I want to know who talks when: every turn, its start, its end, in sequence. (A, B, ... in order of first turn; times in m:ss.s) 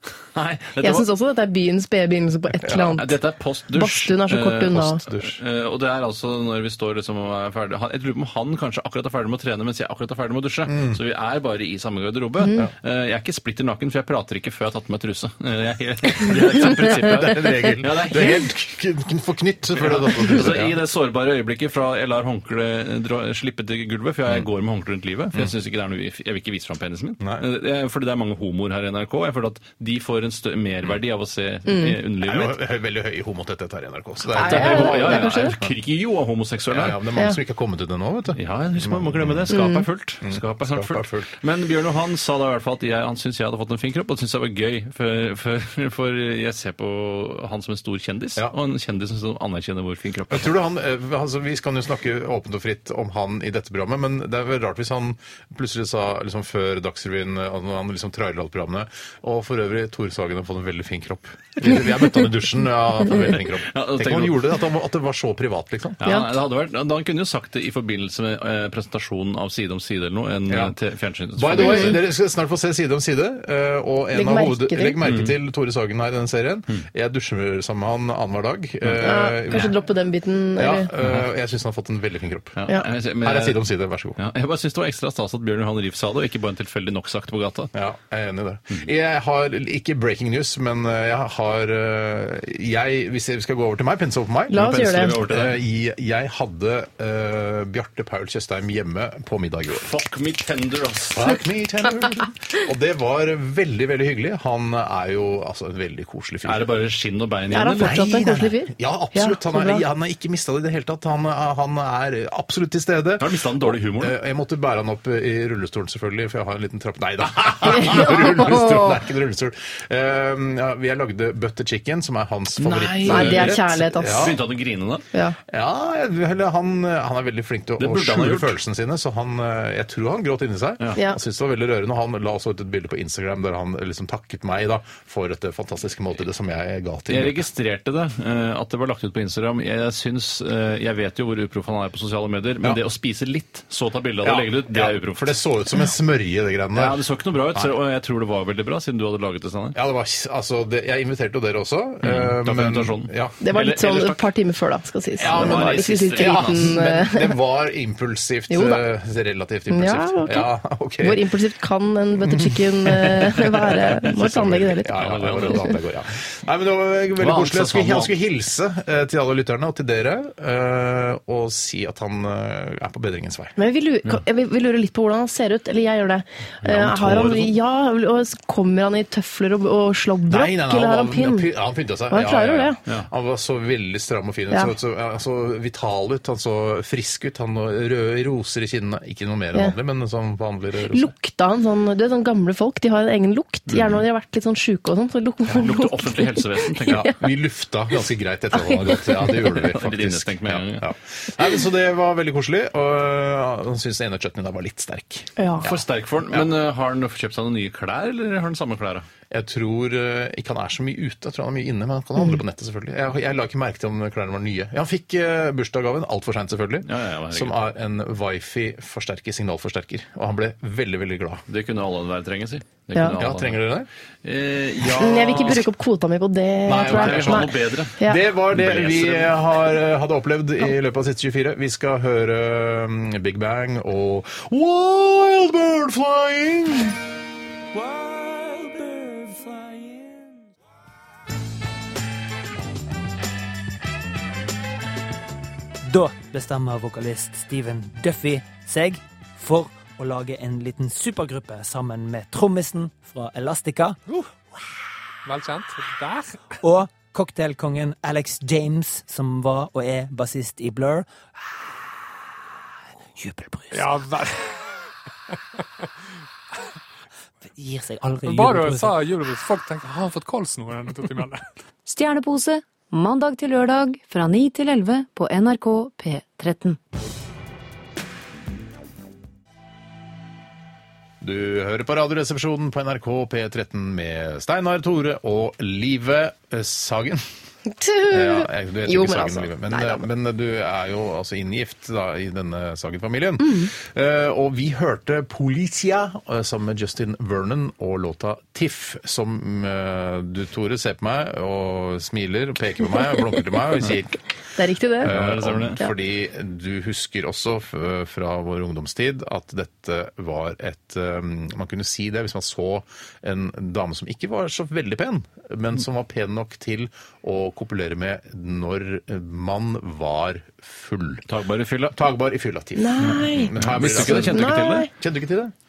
0:00.3-0:01.1 A
0:00.8-0:03.2 B
0:02.6-0:18.5 A
0:03.7-0:05.0 B
0:04.9-0:05.4 C
0:10.7-0:11.0 C
0:16.6-0:20.8 C
0:19.7-0:32.6 A
0:31.7-0:31.9 B
0:32.2-0:35.7 C
0:34.3-0:35.6 B
0:34.4-0:37.0 A
0:36.7-0:39.6 C
0:38.3-0:50.5 A
0:39.5-0:39.8 B
0:40.2-0:41.3 C
0:50.3-1:06.0 C
1:03.3-1:04.5 A
1:06.0-1:12.0 A
1:10.5-1:10.7 C
1:11.4-1:19.7 C
1:11.6-1:11.9 B
1:14.1-1:15.0 B
1:15.0-1:15.3 A
1:18.8-1:19.7 A
1:19.0-1:20.9 B
1:20.6-1:22.6 C
1:21.0-1:21.3 A
1:22.6-1:23.6 A
1:23.2-1:24.2 C
1:24.2-1:27.7 A
1:27.7-1:39.9 C
1:34.5-1:35.2 B
1:34.6-1:35.6 A
1:39.8-1:41.4 A
1:41.1-1:46.7 C
1:46.4-1:48.0 A
1:47.5-1:49.8 B
1:47.8-2:04.4 C
1:53.2-1:54.1 A
1:57.7-1:58.9 B
2:02.6-2:05.0 A
2:03.0-2:04.3 B
2:05.5-2:17.4 C
2:07.8-2:08.6 A
2:17.1-2:25.4 A
2:24.2-2:27.0 C
2:26.7-2:29.8 A
2:29.7-2:33.3 C
2:32.0-2:34.2 A
2:33.4-2:37.4 B
2:35.2-2:41.2 C
2:35.2-2:36.7 A
2:38.5-2:38.8 B
2:39.7-2:44.9 B
2:42.2-2:53.5 C
2:44.9-2:45.8 A
2:47.2-2:48.1 A
2:53.6-3:01.5 B
2:56.6-2:57.5 A
3:00.3-3:11.1 C
3:02.1-3:02.8 B
3:10.9-3:17.1 B
3:15.5-3:17.1 A
3:16.9-3:25.7 C
3:19.3-3:20.8 A
3:25.4-3:25.7 B
3:25.6-3:29.0 A
3:29.3-3:41.4 C
3:36.8-3:37.6 A
3:41.5-3:43.6 A
3:43.2-3:43.9 C
3:44.2-3:45.6 A
3:45.0-3:48.2 B
3:45.2-3:45.5 C
3:46.6-3:57.0 C
3:46.8-3:49.3 A
3:57.7-4:00.4 D
4:05.8-4:14.2 D
4:15.2-4:16.4 E
4:16.6-4:21.1 D
4:23.2-4:24.0 D
4:23.7-4:24.4 E
4:27.5-4:29.0 D
4:28.2-4:31.4 E
4:31.8-4:36.8 F
4:41.2-4:47.2 C
4:47.6-4:50.0 B
4:48.1-5:04.2 C
4:53.4-4:53.7 B
5:04.6-5:05.1 B
5:05.0-5:21.2 C
5:05.0-5:05.8 A
5:21.3-5:22.0 A
5:21.9-5:25.5 C
5:22.8-5:24.9 B
5:23.5-5:24.9 A